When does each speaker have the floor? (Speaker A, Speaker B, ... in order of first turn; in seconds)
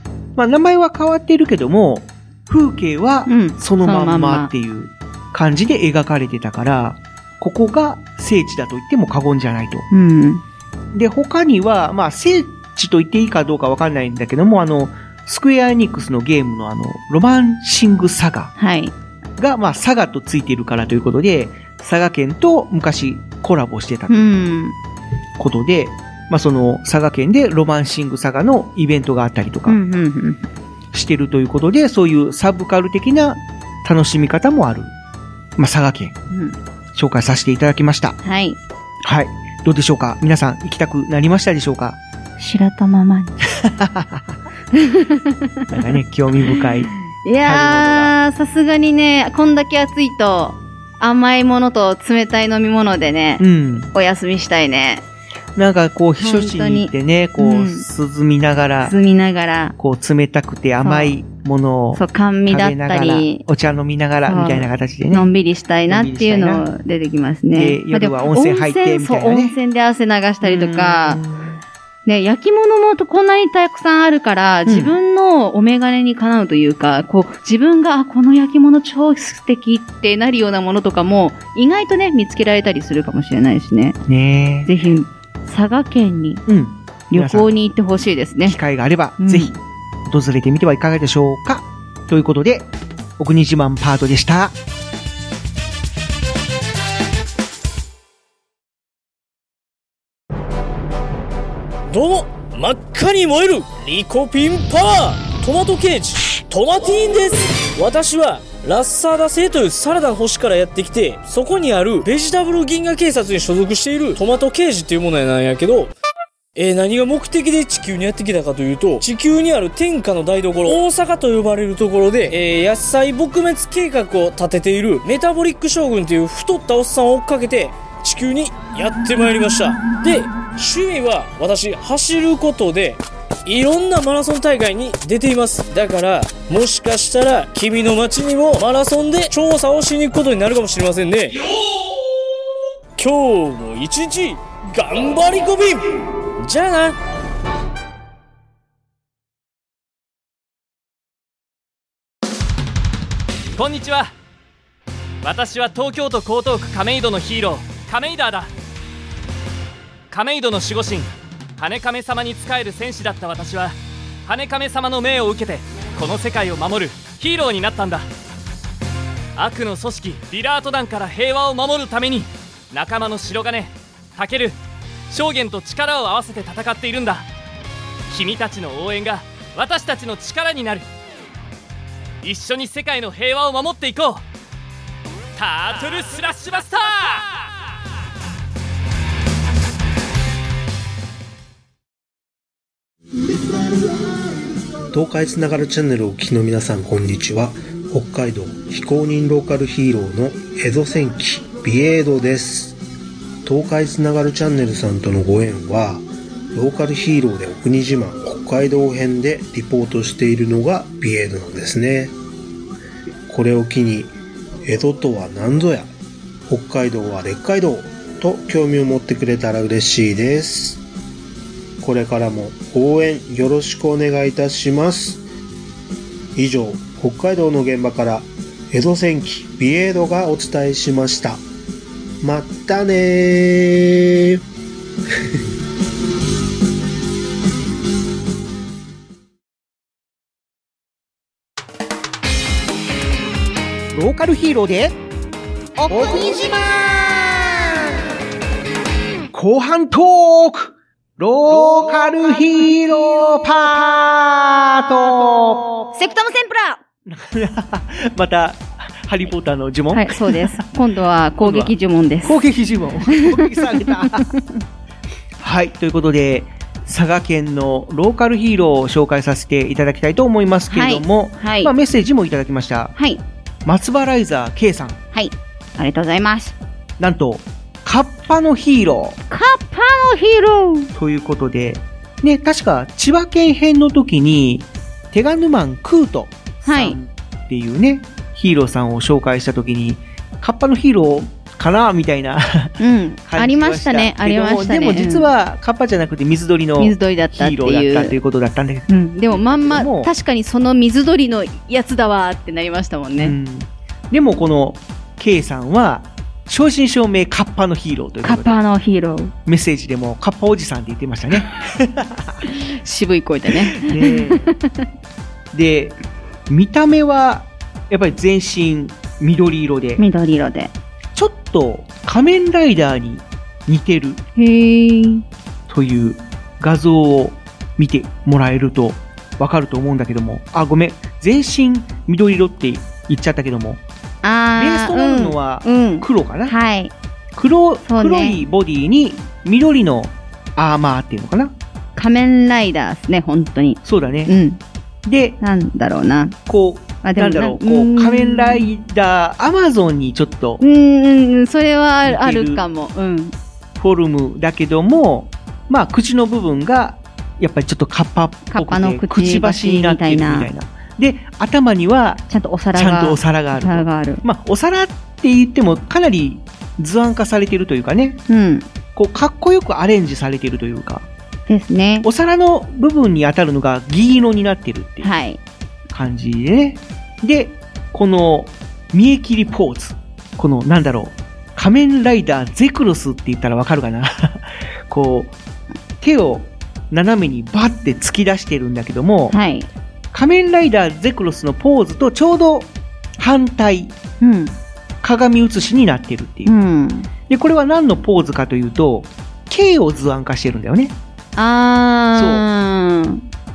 Speaker A: 0.3-9.8, 10.9-18.5, 19.4-24.3, 25.4-29.8, 30.9-34.9, 35.6-36.1, 36.9-38.2, 39.0-42.0, 43.5-44.3, 45.7-46.9, 47.4-48.1, 53.4-53.9, 55.5-58.9, 59.8-65.3, 65.9-66.7, 67.5-69.6, 70.4-71.6, 74.7-74.9, 84.0-84.7, 86.5-87.5, 88.4-94.5, 243.9-244.9, 245.9-247.7, 249.3-255.9, 257.1-260.6, 261.4-261.7, 262.2-264.3, 265.4-272.9, 273.6-275.0, 277.0-279.2, 280.9-300.1, 303.2-308.6, 309.4-312.4, 313.5-314.5, 315.5-315.9, 316.5-320.0, 321.1-324.2, 325.7-333.8, 334.6-336.5, 337.3-341.5, 343.8-344.3, 345.0-345.4, 346.5-350.6, 352.1-352.6, 353.8-362.2, 362.7-368.2, 368.9-371.1, 372.0-375.1, 375.9-385.3, 386.0-389.4, 390.1-393.9, 395.0-396.5, 397.3-400.9, 402.1-402.4
Speaker B: 3.3-4.5, 9.9-10.4, 18.6-18.9, 24.1-24.7, 29.6-30.4, 36.3-36.6, 38.2-38.6, 42.4-43.4, 44.7-45.7, 47.2-55.0, 56.2-57.9, 58.8-59.8, 60.8-61.1, 61.9-63.4, 64.2-71.2, 72.0-84.0, 84.7-86.4, 87.1-88.6, 89.2-89.5, 245.8-246.5, 255.9-256.8, 259.9-262.4, 263.1-264.4, 270.7-271.7, 272.9-273.2, 275.1-276.5, 279.3-280.9, 286.6-287.0, 292.8-295.3, 296.8-298.2, 298.9-303.4, 308.2-309.3, 312.5-314.5, 320.0-320.7, 324.4-325.2, 334.2-336.9, 337.8-338.4, 341.9-344.6, 345.4-346.4, 347.0-348.7, 350.6-353.3, 358.5-360.5, 362.3-364.2, 368.3-368.6, 371.5-372.1, 375.0-375.4, 389.3-389.7, 394.2-394.6, 396.4-397.1, 401.4-403.2
Speaker C: 101.9-115.9, 116.5-141.4, 143.0-145.8, 146.4-146.9
Speaker D: 153.6-154.1, 155.2-158.5, 160.1-168.1, 169.3-174.6, 175.1-177.3, 178.1-180.9, 182.2-184.2, 185.3-187.3
Speaker E: 194.9-202.8, 203.4-212.1, 213.3-215.9, 216.5-220.8, 221.8-225.2, 226.3-231.4, 232.2-234.4